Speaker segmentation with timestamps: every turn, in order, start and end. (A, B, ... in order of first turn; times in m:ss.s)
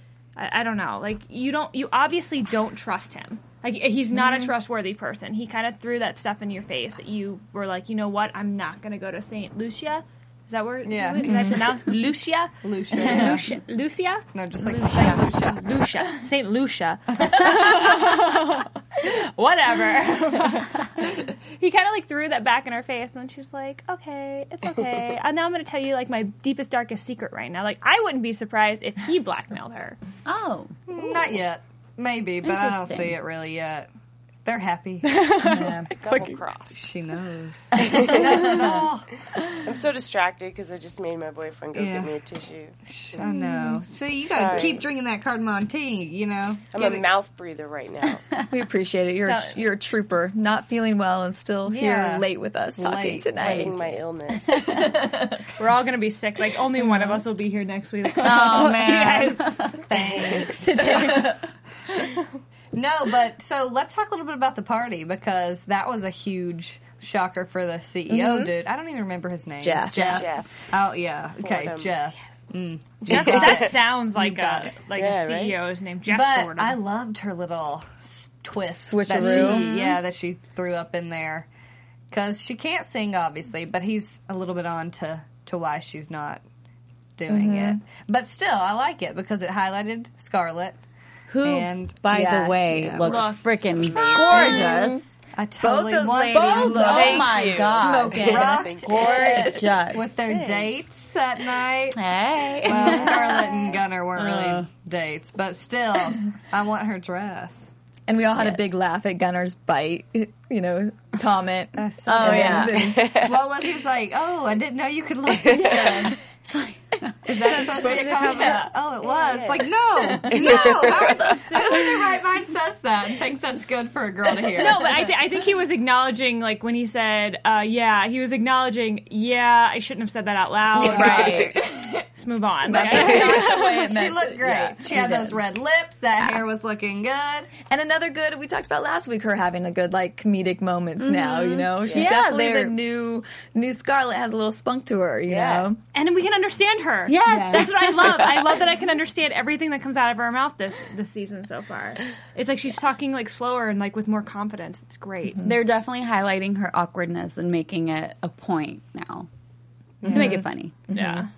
0:00.4-0:14.2 A
0:10.8-0:11.6 B
0:11.2-0:11.6 C
0:12.6-0:13.5 B
0:14.3-0:15.6 B
0:14.8-0:15.2 D
0:15.0-0:30.0 A
0:30.3-0:31.2 D
0:30.9-0:33.9 B
0:32.4-0:33.2 D
0:34.4-0:35.3 B
0:35.0-0:36.4 A
0:35.4-0:35.9 C
0:36.0-0:36.8 E
0:36.7-0:39.1 B
0:37.8-0:38.7 E
0:37.8-0:38.6 C
0:39.6-0:43.2 E
0:41.7-0:42.2 B
0:42.9-0:47.1 B
0:44.3-0:44.8 E
0:46.7-0:48.2 E
0:48.5-0:53.9 C
0:49.2-0:49.6 A
0:51.7-0:53.7 B
0:53.4-0:54.7 E
0:54.5-0:55.4 C
0:55.6-0:59.8 A
0:58.2-0:59.8 D
0:59.9-1:01.3 B
1:00.6-1:01.4 C
1:00.8-1:01.3 A
1:02.7-1:14.8 B
1:08.1-1:08.5 C
1:09.6-1:10.3 C
1:09.9-1:10.7 E
1:11.4-1:12.0 E
1:13.0-1:16.8 A
1:13.1-1:13.8 E
1:14.9-1:15.6 E
1:16.1-1:21.5 B
1:18.6-1:20.0 C
1:22.1-1:26.4 B
1:27.2-1:30.8 B
1:27.3-1:27.8 C
1:31.3-1:35.1 D
1:31.4-1:33.5 B
1:32.1-1:32.7 C
1:33.0-1:34.6 A
1:33.7-1:34.7 E
1:34.1-1:35.1 C
1:35.3-1:37.6 B
1:35.6-1:39.8 C
1:36.3-1:40.1 D
1:36.8-1:39.4 E
1:38.1-1:42.0 B
1:40.2-1:40.8 E
1:41.9-1:43.6 D
1:42.6-1:47.7 B
1:44.2-1:44.7 D
1:48.1-1:53.3 C
1:48.4-1:48.6 D
1:51.8-1:56.2 B
1:52.0-1:52.8 D
1:52.7-1:53.5 E
1:55.4-1:56.2 E
1:56.5-1:57.2 D
1:57.2-2:05.1 B
1:57.4-1:58.7 A
1:57.5-1:58.7 C
1:59.0-1:59.7 E
2:00.2-2:00.6 C
2:00.2-2:01.4 E
2:01.2-2:01.9 D
2:04.6-2:11.5 A
2:10.7-2:12.0 C
2:10.8-2:11.5 D
2:10.8-2:11.5 B
2:12.2-2:13.9 A
2:12.6-2:15.4 C
2:12.8-2:17.5 B
2:17.6-2:25.8 C
2:21.0-2:22.8 D
2:21.9-2:22.1 E
2:25.3-2:25.7 E
2:25.9-2:35.4 A
2:27.1-2:28.5 D
2:27.3-2:27.7 B
2:35.4-2:39.3 D
2:40.0-2:40.4 B
2:40.0-2:41.2 C
2:40.0-2:40.9 D
2:40.9-2:41.3 A